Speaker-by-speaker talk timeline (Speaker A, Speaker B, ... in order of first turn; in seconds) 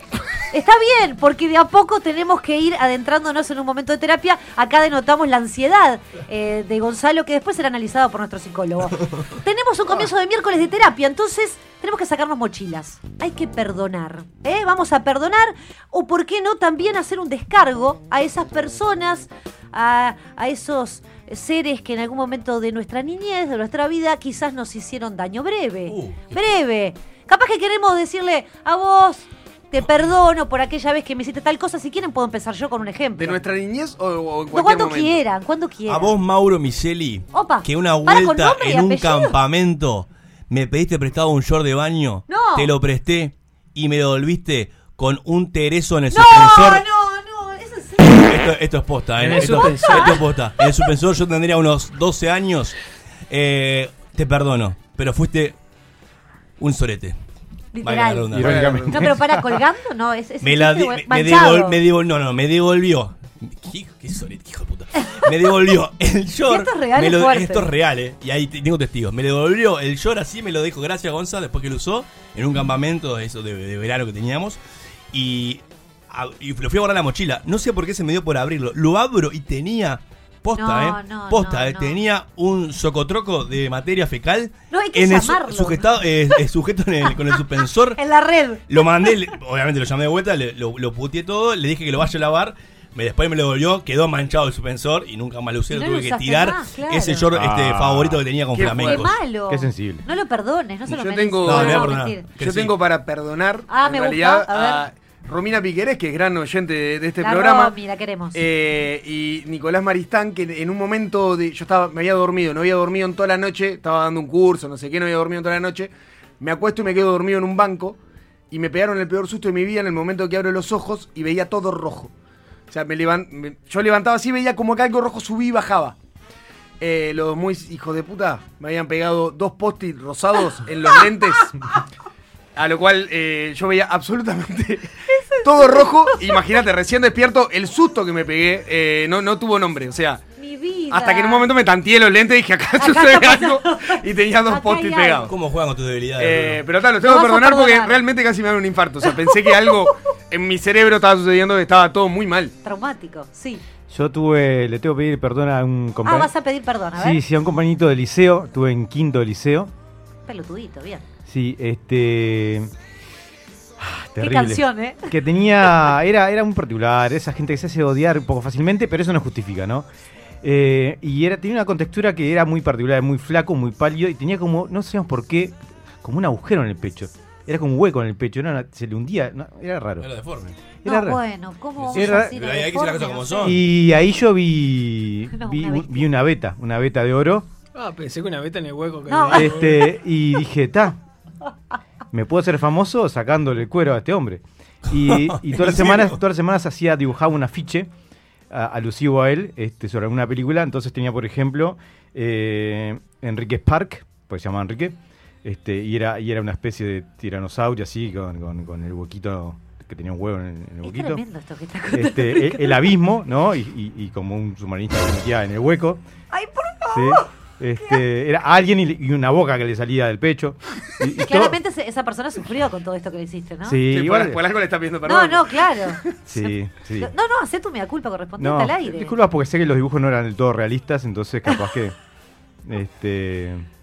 Speaker A: 0.5-33.4, 34.5-36.1, 37.3-39.4, 42.3-42.7, 46.1-48.4, 49.4-50.2, 57.7-61.8, 65.0-65.2, 66.5-67.7, 80.6-82.0, 84.7-85.9, 88.0-88.7, 95.7-97.3, 98.8-102.3, 103.7-104.8, 107.2-108.4, 135.1-136.3, 140.4-141.5, 142.8-145.3, 147.0-148.0, 152.6-153.6, 156.1-157.2, 160.3-161.1, 164.2-165.1, 180.8-183.5, 185.3-186.1, 189.1-189.5, 210.8-212.9, 216.3-217.3, 221.2-223.8, 225.1-226.0, 227.0-229.1
Speaker B: 25.9-26.4, 35.9-46.8, 48.0-52.8, 53.3-55.5, 56.6-57.2, 57.8-58.8, 60.4-74.6, 75.1-88.0, 88.7-99.1, 101.5-102.7, 145.3-146.6, 180.0-180.6, 181.8-183.6, 194.9-196.2
Speaker C: 33.2-35.2, 58.4-59.1, 98.5-99.0, 100.9-107.8, 108.3-118.0, 118.5-122.1, 122.7-126.0, 126.8-131.6, 132.6-140.2, 140.9-145.3, 146.2-152.5, 223.9-226.0
Speaker D: 49.2-50.1, 187.7-189.8
Speaker E: 58.3-59.4, 97.3-98.2, 99.5-100.0, 153.9-156.3, 156.9-159.7, 161.3-162.7, 163.8-169.9, 170.4-180.1, 180.8-181.2, 181.9-182.3, 183.4-187.5, 189.3-191.0, 192.1-197.9, 198.5-211.2, 211.9-216.0, 216.9-221.6, 223.7-224.4, 226.3-227.1, 228.4-231.9, 232.7-233.7